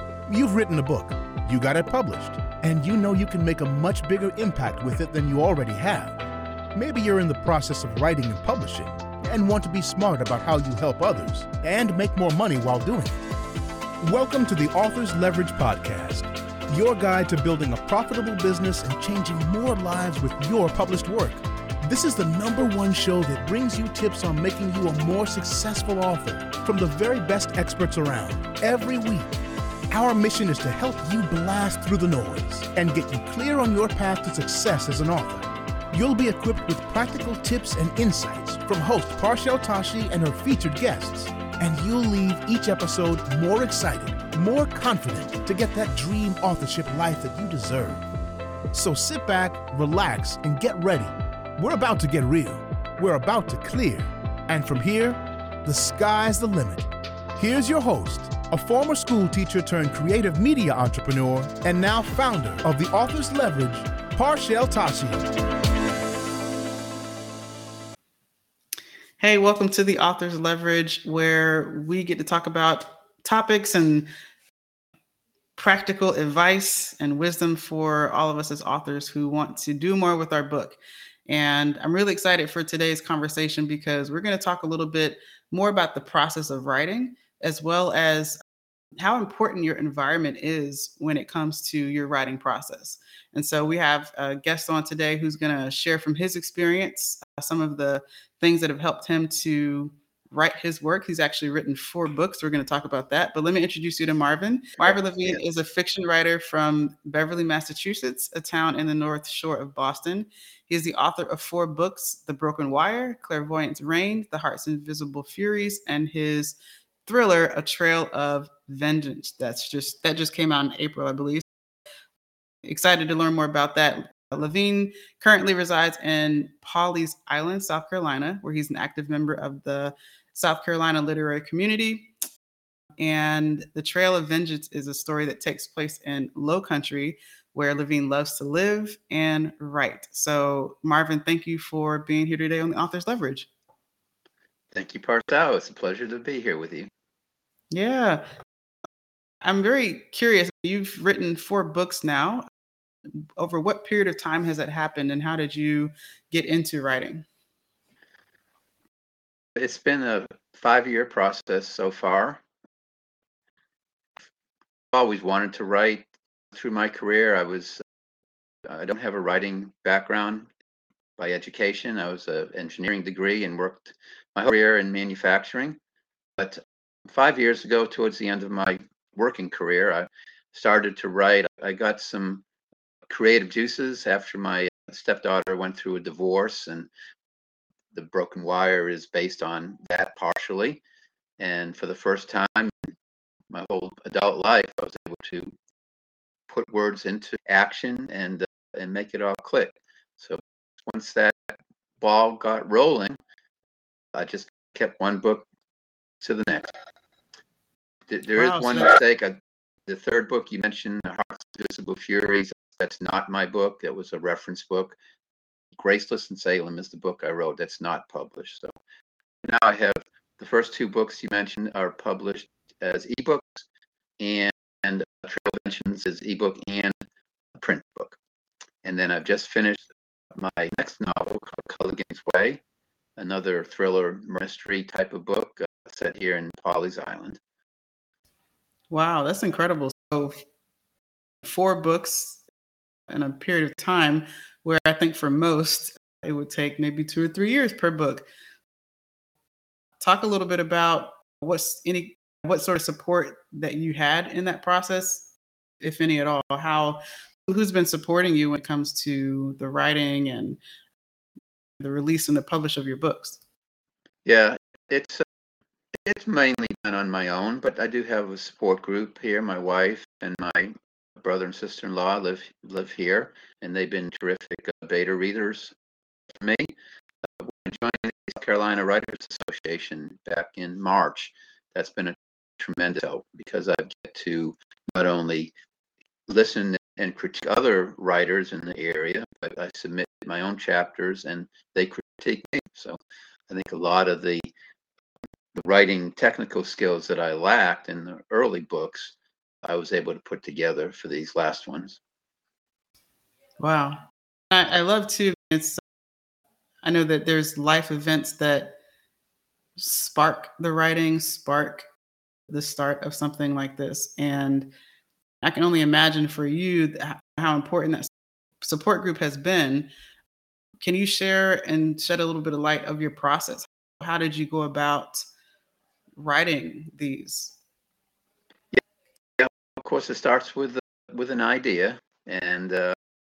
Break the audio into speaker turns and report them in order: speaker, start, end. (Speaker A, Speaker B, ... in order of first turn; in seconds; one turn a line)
Speaker A: 0.3-6.2
Speaker A: 6.7-13.2
Speaker A: 14.0-29.3
Speaker A: 29.9-48.0
Speaker A: 48.7-65.3
Speaker B: 69.2-74.1
Speaker B: 75.6-88.4
Speaker B: 89.0-121.4
Speaker C: 104.8-105.4
Speaker B: 122.6-132.1
Speaker B: 133.0-143.5
Speaker C: 144.7-146.9
Speaker B: 147.7-148.2
Speaker B: 149.4-152.4
Speaker B: 153.4-157.3
Speaker C: 159.6-162.4
Speaker C: 164.9-167.8
Speaker C: 168.7-170.5
Speaker C: 171.2-175.8
Speaker C: 176.4-182.4
Speaker C: 183.1-186.9
Speaker C: 187.9-190.8
Speaker C: 191.4-192.9
Speaker C: 193.5-195.5
Speaker C: 196.5-203.2
Speaker C: 204.1-205.5
Speaker C: 206.2-206.7
Speaker C: 208.1-209.4
Speaker B: 208.3-208.9
Speaker C: 209.9-215.0
Speaker C: 215.8-218.7
Speaker C: 219.4-223.7
Speaker C: 224.2-227.0
Speaker C: 227.6-228.2
Speaker C: 228.8-232.6
Speaker C: 233.2-237.4
Speaker B: 238.9-240.4
Speaker B: 241.4-242.4
Speaker B: 243.1-248.3
Speaker B: 250.0-260.6
Speaker B: 261.8-263.4
Speaker C: 264.2-265.2
Speaker C: 266.1-275.7
Speaker C: 276.4-276.7
Speaker C: 277.4-285.5
Speaker C: 286.3-293.0
Speaker C: 293.5-294.5
Speaker C: 295.6-302.0
Speaker B: 303.6-304.0
Speaker B: 304.5-305.8
Speaker B: 306.8-308.8
Speaker B: 309.8-311.9
Speaker B: 312.5-314.7
Speaker B: 315.4-319.9
Speaker B: 320.8-325.2
Speaker B: 326.2-327.6
Speaker C: 329.4-332.9